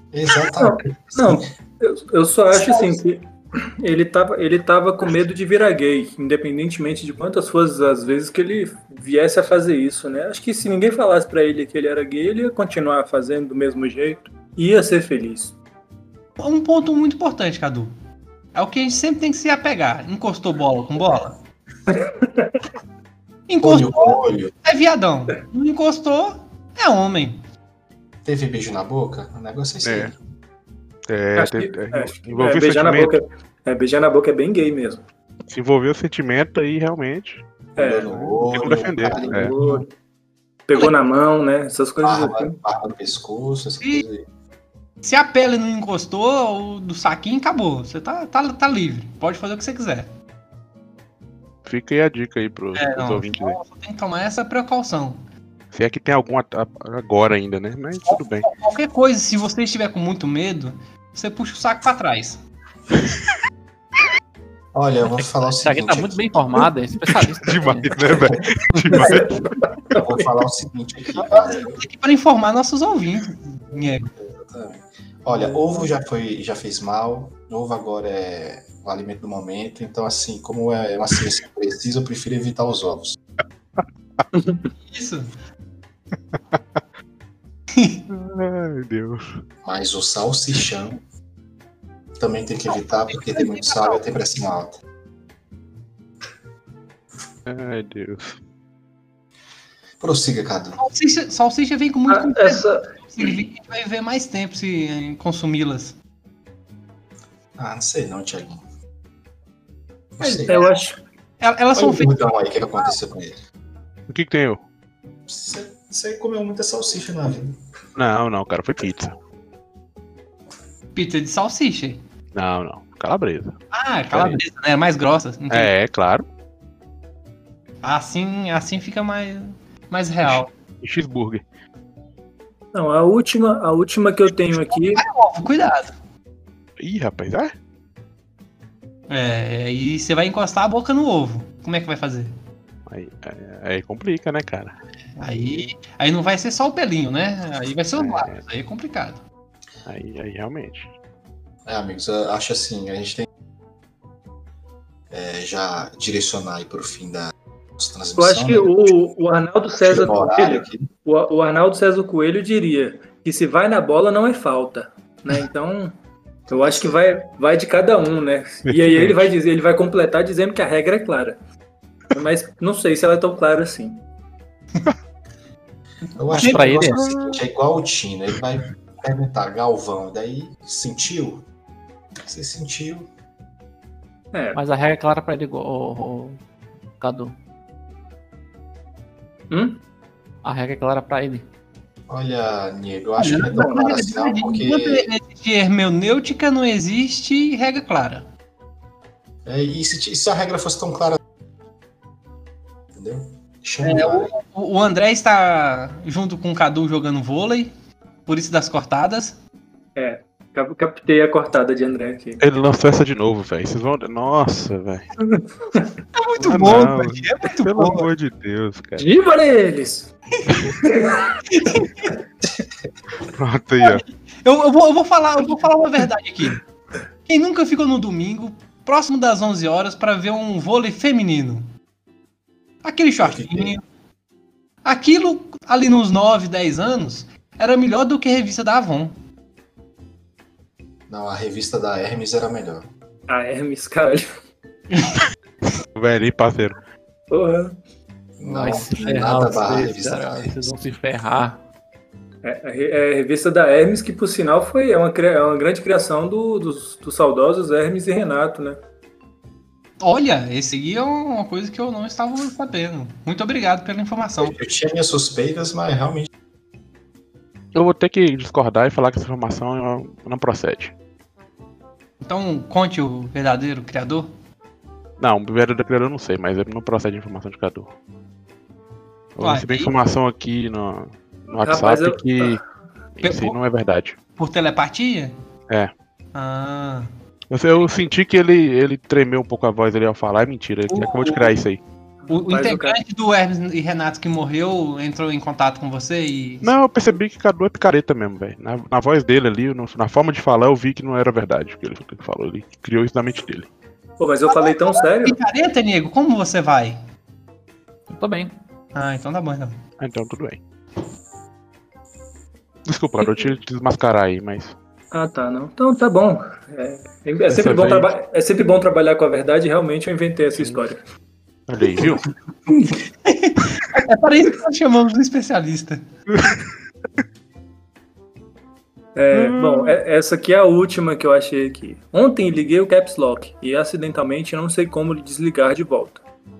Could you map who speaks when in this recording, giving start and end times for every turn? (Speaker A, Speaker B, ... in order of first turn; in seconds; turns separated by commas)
Speaker A: 0.1-1.5, Speaker B: 0.5-15.6, Speaker C: 16.4-17.9, Speaker C: 18.5-21.4, Speaker B: 21.9-22.6, Speaker C: 23.5-27.4, Speaker A: 23.6-24.5, Speaker A: 28.2-30.1, Speaker D: 29.8-30.1, Speaker D: 31.1-33.2, Speaker B: 31.4-35.0, Speaker D: 35.5-37.4, Speaker A: 37.8-39.9, Speaker B: 37.8-38.1, Speaker D: 38.1-39.5, Speaker B: 39.0-39.9, Speaker B: 40.7-42.6, Speaker A: 42.0-44.3, Speaker C: 45.0-50.1, Speaker D: 51.7-53.6, Speaker C: 52.8-55.2, Speaker D: 55.7-58.5, Speaker C: 58.1-62.4, Speaker A: 64.7-66.7, Speaker E: 65.6-69.1, Speaker D: 67.2-69.5, Speaker B: 68.9-70.3, Speaker A: 69.9-71.8, Speaker C: 71.2-74.1, Speaker A: 74.2-83.2, Speaker C: 84.9-85.3, Speaker C: 87.8-88.0, Speaker D: 88.1-89.4, Speaker A: 89.6-91.0, Speaker A: 92.2-94.8, Speaker C: 93.1-94.0, Speaker D: 97.5-98.4, Speaker A: 100.0-100.8, Speaker C: 100.8-106.0, Speaker B: 102.1-103.3, Speaker A: 107.6-108.6, Speaker A: 110.2-110.7, Speaker C: 110.2-110.7, Speaker B: 110.5-111.0, Speaker C: 111.4-112.2, Speaker A: 111.8-113.4, Speaker D: 114.1-114.6, Speaker A: 115.3-117.6, Speaker D: 118.0-119.2, Speaker C: 121.0-122.0, Speaker D: 122.3-123.6, Speaker C: 123.7-125.7, Speaker D: 124.1-124.4, Speaker D: 125.5-126.2, Speaker C: 127.8-130.5, Speaker D: 130.2-131.4, Speaker B: 132.7-135.1, Speaker C: 134.7-136.0, Speaker D: 136.8-137.5, Speaker C: 139.1-142.3, Speaker D: 142.9-144.8, Speaker C: 145.2-149.2, Speaker D: 147.9-148.4, Speaker D: 149.9-150.9, Speaker A: 151.7-153.3, Speaker A: 155.1-158.9, Speaker B: 158.2-165.9, Speaker A: 159.8-160.9, Speaker A: 166.5-166.9, Speaker B: 166.5-171.4, Speaker D: 168.7-169.3, Speaker B: 172.1-174.0, Speaker A: 176.2-181.5, Speaker C: 176.3-176.8, Speaker E: 176.4-177.0, Speaker D: 176.9-177.4, Speaker A: 182.2-183.1, Speaker B: 184.3-184.6, Speaker E: 184.6-186.4, Speaker E: 187.0-187.3, Speaker B: 189.5-189.8, Speaker E: 190.4-191.5, Speaker A: 192.1-195.1, Speaker C: 193.2-198.3, Speaker A: 199.4-201.2, Speaker A: 202.9-204.3, Speaker C: 203.8-207.7, Speaker C: 208.3-209.4, Speaker B: 210.0-212.4, Speaker D: 212.4-215.1, Speaker B: 215.2-215.9, Speaker C: 216.2-218.1, Speaker D: 216.4-219.1, Speaker B: 219.0-220.1, Speaker B: 220.8-221.3, Speaker C: 221.5-222.1, Speaker D: 223.3-224.0, Speaker C: 223.8-226.6, Speaker C: 227.3-231.7, Speaker C: 232.8-233.8, Speaker A: 233.2-233.8, Speaker C: 234.8-239.2, Speaker A: 241.1-242.9, Speaker B: 243.3-244.3, Speaker D: 245.8-246.8, Speaker B: 247.3-247.8, Speaker A: 248.4-250.7, Speaker E: 248.5-251.6, Speaker B: 252.4-258.8, Speaker C: 260.0-264.6, Speaker A: 264.4-266.3, Speaker D: 267.7-270.9, Speaker C: 272.2-274.3, Speaker D: 275.2-277.9, Speaker D: 279.4-282.6, Speaker C: 279.4-279.9, Speaker B: 281.6-282.6, Speaker D: 283.2-284.2, Speaker C: 283.2-283.6, Speaker C: 284.4-285.3, Speaker C: 286.3-287.1, Speaker D: 287.5-291.8, Speaker C: 290.9-291.6, Speaker B: 292.3-293.0, Speaker C: 292.3-296.8, Speaker D: 296.6-303.7, Speaker B: 304.2-305.4, Speaker C: 304.5-307.0, Speaker E: 308.1-308.5, Speaker C: 308.9-309.8, Speaker D: 310.0-310.6, Speaker D: 312.9-314.8, Speaker B: 315.1-321.0, Speaker D: 317.5-318.1, Speaker D: 321.7-322.3, Speaker C: 322.9-326.0, Speaker D: 326.4-326.6, Speaker B: 329.2-336.2, Speaker D: 329.3-330.0